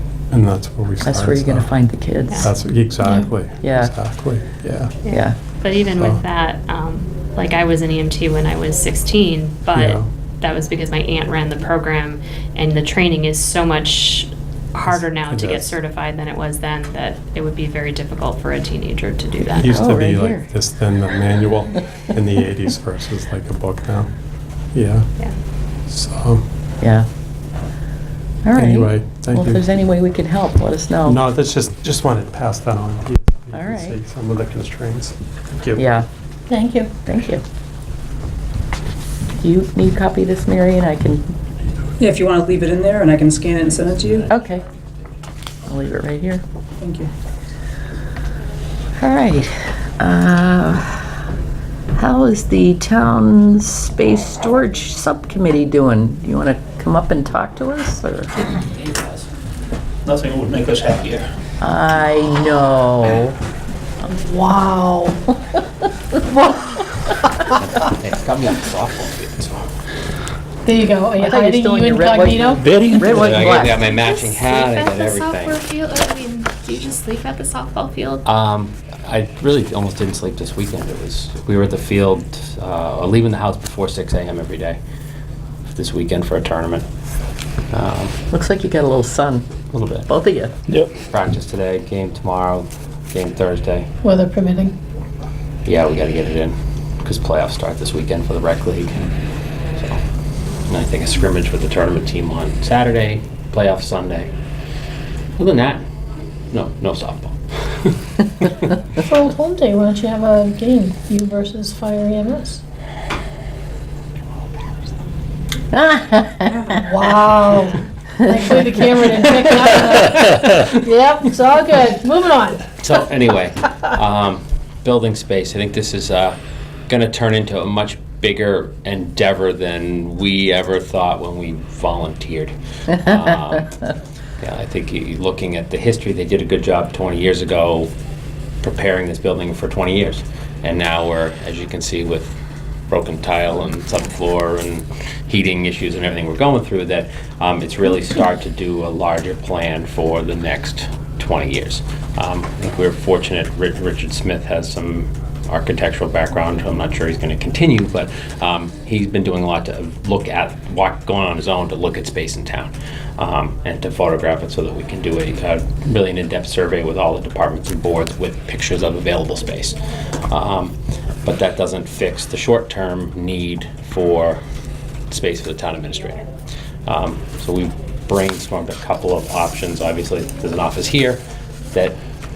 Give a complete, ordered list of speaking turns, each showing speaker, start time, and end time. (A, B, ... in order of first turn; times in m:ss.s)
0:00.3-0:01.7 A
0:01.0-0:02.5 B
0:02.4-0:04.9 A
0:03.6-0:03.9 B
0:05.0-0:19.8 C
0:05.1-0:05.4 B
0:06.0-0:06.2 A
0:09.7-0:10.1 A
0:14.9-0:15.8 A
0:19.4-0:20.5 B
0:19.6-0:24.1 A
0:24.7-0:25.1 A
0:25.9-0:26.4 A
0:26.8-0:27.1 B
0:28.4-0:31.2 B
0:28.5-0:29.7 A
0:31.1-0:35.9 A
0:33.5-0:34.0 B
0:35.8-0:36.1 B
0:36.5-0:36.9 D
0:37.1-0:37.4 B
0:39.4-0:41.3 B
0:42.0-0:44.3 E
0:44.3-0:44.6 B
0:45.7-0:46.4 B
0:46.8-0:47.1 E
0:49.0-0:51.1 B
0:52.0-0:58.3 B
1:00.0-1:01.3 F
1:01.6-1:03.4 B
1:04.1-1:05.2 D
1:07.5-1:09.7 G
1:10.6-1:12.8 D
1:11.2-1:13.9 B
1:12.6-1:13.5 F
1:13.1-1:15.7 G
1:13.8-1:18.2 C
1:18.2-1:24.8 G
1:25.7-1:26.9 G
1:27.7-1:28.2 G
1:28.3-1:30.5 B
1:29.7-1:30.1 G
1:31.1-1:33.9 G
1:34.0-1:34.8 D
1:35.6-1:39.0 G
1:39.8-1:40.0 G
1:40.7-1:44.3 G
1:45.4-1:45.8 G
1:46.5-1:48.7 G
1:49.0-1:52.6 D
1:55.7-1:56.8 B
1:56.7-2:02.6 D
1:58.2-1:58.8 B
2:02.8-2:13.7 G
2:14.4-2:17.9 G
2:18.6-2:22.4 G
2:22.9-2:49.8 G
2:50.3-2:54.4 G
2:55.1-2:56.2 G
2:56.9-3:02.0 G